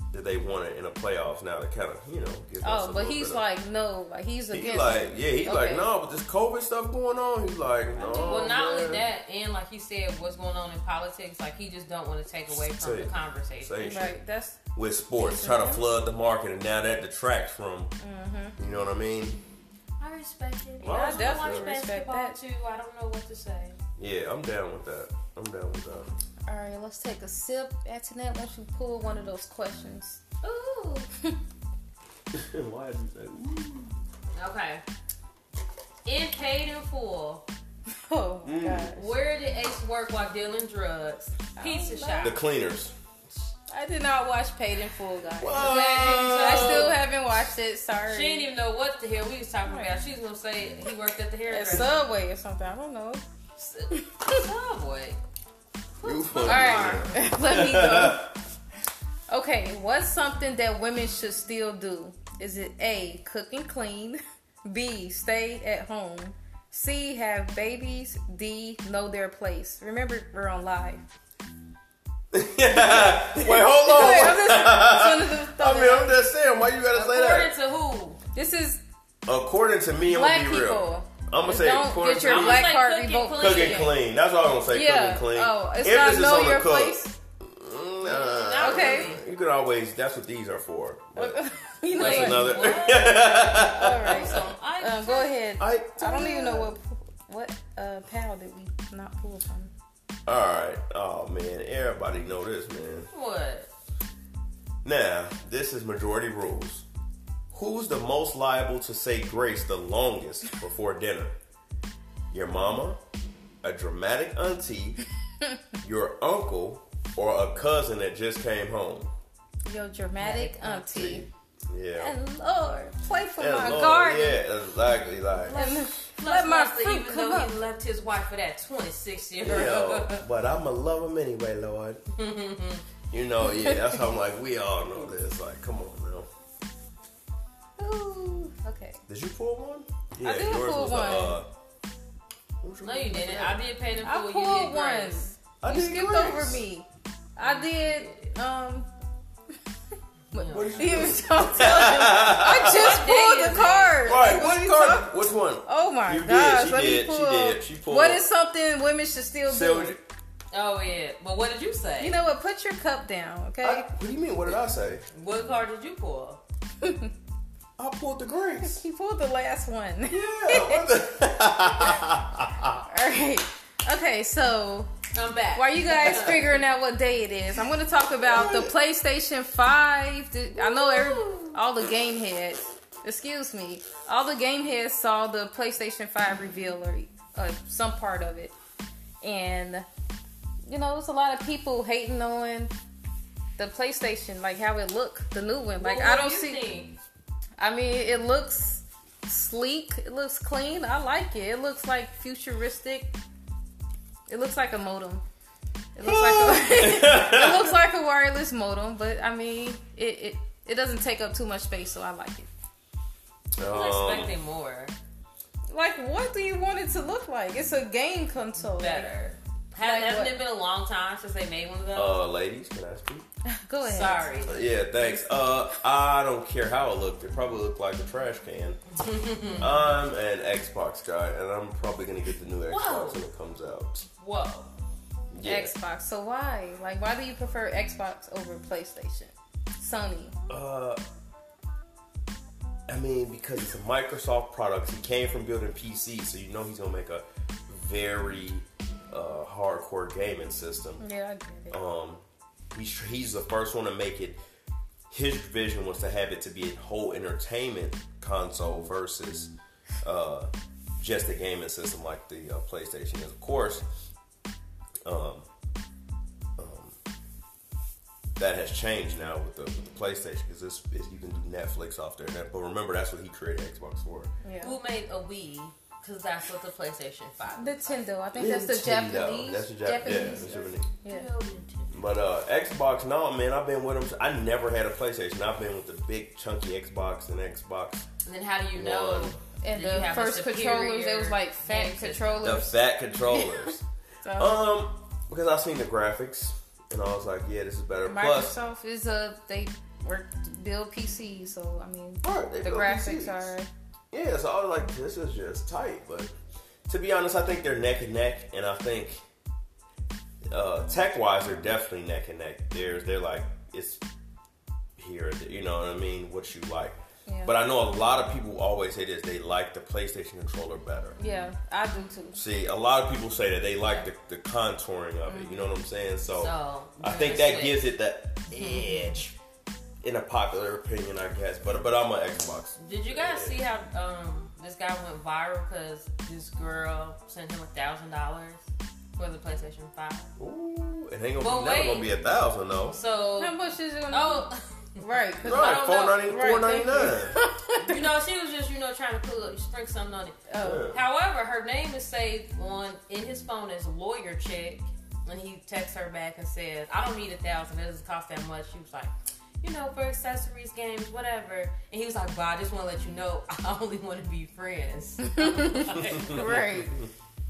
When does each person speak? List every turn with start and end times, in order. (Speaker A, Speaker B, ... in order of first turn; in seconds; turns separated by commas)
Speaker A: 0.1-3.4, Speaker B: 2.6-5.9, Speaker A: 4.5-9.1, Speaker B: 8.0-8.5, Speaker C: 8.0-14.0, Speaker A: 12.5-14.2, Speaker B: 13.8-14.6, Speaker A: 14.8-17.9, Speaker B: 15.2-15.8, Speaker B: 18.0-18.6, Speaker A: 18.6-19.4, Speaker C: 20.0-23.8, Speaker B: 20.8-22.4, Speaker A: 20.8-21.8, Speaker A: 24.0-26.1, Speaker B: 26.5-30.2, Speaker C: 30.4-31.1, Speaker A: 32.3-33.9, Speaker C: 34.3-34.8, Speaker C: 36.0-37.4, Speaker B: 38.1-39.0, Speaker A: 38.4-39.0, Speaker C: 38.9-42.4, Speaker B: 41.5-42.4, Speaker A: 42.2-42.9, Speaker B: 43.7-48.5, Speaker A: 45.4-46.9, Speaker C: 45.6-47.0, Speaker C: 48.0-51.9, Speaker B: 49.6-49.9, Speaker B: 51.5-53.2, Speaker C: 53.6-55.2, Speaker B: 53.9-54.4, Speaker C: 56.0-57.1, Speaker A: 56.0-58.3, Speaker B: 56.4-58.3, Speaker B: 59.3-71.0, Speaker A: 72.3-77.5, Speaker B: 72.7-76.2, Speaker C: 76.9-78.2, Speaker B: 78.3-78.8, Speaker A: 79.2-82.8, Speaker B: 80.0-83.9, Speaker C: 82.2-84.0, Speaker A: 83.3-91.4, Speaker B: 84.7-87.1, Speaker C: 88.0-89.2, Speaker B: 88.6-89.1, Speaker B: 91.2-92.9, Speaker C: 91.9-95.4, Speaker A: 91.9-94.5, Speaker B: 93.4-99.7, Speaker A: 95.6-96.7, Speaker A: 100.2-103.1, Speaker C: 103.1-103.7, Speaker A: 104.8-106.8, Speaker A: 107.5-111.3, Speaker A: 112.3-113.0, Speaker A: 113.6-115.0, Speaker A: 115.8-119.1, Speaker B: 119.7-121.3, Speaker C: 120.2-121.2, Speaker A: 121.7-122.1, Speaker B: 122.0-124.4, Speaker A: 123.4-125.6, Speaker C: 125.4-130.2, Speaker B: 125.5-127.5, Speaker A: 129.4-132.0, Speaker C: 132.1-132.8, Speaker A: 133.1-136.3, Speaker B: 133.5-133.9, Speaker B: 137.8-139.0, Speaker A: 139.1-141.5, Speaker B: 140.2-141.4, Speaker A: 142.6-143.6, Speaker C: 142.8-145.3, Speaker B: 144.0-148.9, Speaker A: 145.6-146.6, Speaker C: 147.4-148.3, Speaker C: 150.3-154.3, Speaker B: 150.3-159.9, Speaker A: 150.5-153.0, Speaker A: 154.0-158.2, Speaker A: 159.5-160.0, Speaker C: 160.5-162.2, Speaker B: 162.0-163.9, Speaker A: 163.6-165.0, Speaker C: 165.1-166.4, Speaker B: 166.8-167.1, Speaker A: 167.8-168.8, Speaker B: 168.6-170.9, Speaker A: 170.1-172.8, Speaker B: 172.9-174.9, Speaker C: 175.1-176.6, Speaker B: 175.5-188.5, Speaker A: 178.2-178.7, Speaker C: 180.6-181.6, Speaker B: 189.2-189.8, Speaker B: 190.7-192.7, Speaker B: 193.6-196.7, Speaker C: 195.8-196.9, Speaker B: 197.6-203.1, Speaker B: 204.3-205.2, Speaker B: 205.9-212.5, Speaker A: 206.0-207.7, Speaker A: 213.6-214.3, Speaker C: 213.6-214.9, Speaker B: 215.7-219.2, Speaker C: 218.6-222.2, Speaker B: 219.8-220.3, Speaker A: 221.9-223.2, Speaker B: 223.5-224.3, Speaker C: 223.8-224.7, Speaker A: 224.4-228.8, Speaker C: 228.9-229.9, Speaker A: 229.6-234.1, Speaker C: 232.7-233.2, Speaker C: 234.2-234.7, Speaker A: 235.3-235.7, Speaker B: 235.4-240.3, Speaker A: 240.5-241.0, Speaker A: 242.9-251.0, Speaker B: 251.0-251.8, Speaker A: 251.7-254.4, Speaker A: 255.1-259.5, Speaker A: 260.0-263.9, Speaker A: 265.0-265.5, Speaker A: 266.6-267.0, Speaker A: 268.4-274.3, Speaker B: 274.4-274.8, Speaker C: 274.6-278.0, Speaker B: 277.6-281.3, Speaker A: 278.3-280.9, Speaker C: 281.0-282.0, Speaker A: 281.9-288.1, Speaker C: 288.2-292.5, Speaker A: 288.7-289.4, Speaker B: 289.6-292.8, Speaker A: 292.4-293.8, Speaker B: 294.2-294.6, Speaker A: 294.4-298.6, Speaker B: 298.0-303.7, Speaker A: 302.2-303.5, Speaker A: 304.1-306.3, Speaker A: 306.9-309.2, Speaker A: 310.5-314.0, Speaker A: 315.0-321.2, Speaker B: 317.3-317.5, Speaker B: 321.2-322.4, Speaker A: 322.3-329.4, Speaker B: 325.2-325.7, Speaker C: 326.3-327.9, Speaker C: 328.6-329.1, Speaker A: 330.0-333.6, Speaker C: 332.8-340.3, Speaker A: 340.4-343.0, Speaker C: 341.4-342.1, Speaker C: 342.9-343.5, Speaker B: 343.4-344.5, Speaker C: 344.1-346.4, Speaker B: 345.0-348.1, Speaker A: 345.4-347.4, Speaker C: 347.8-366.6, Speaker B: 350.5-350.9, Speaker A: 350.6-351.0, Speaker B: 365.2-366.9, Speaker A: 366.0-367.1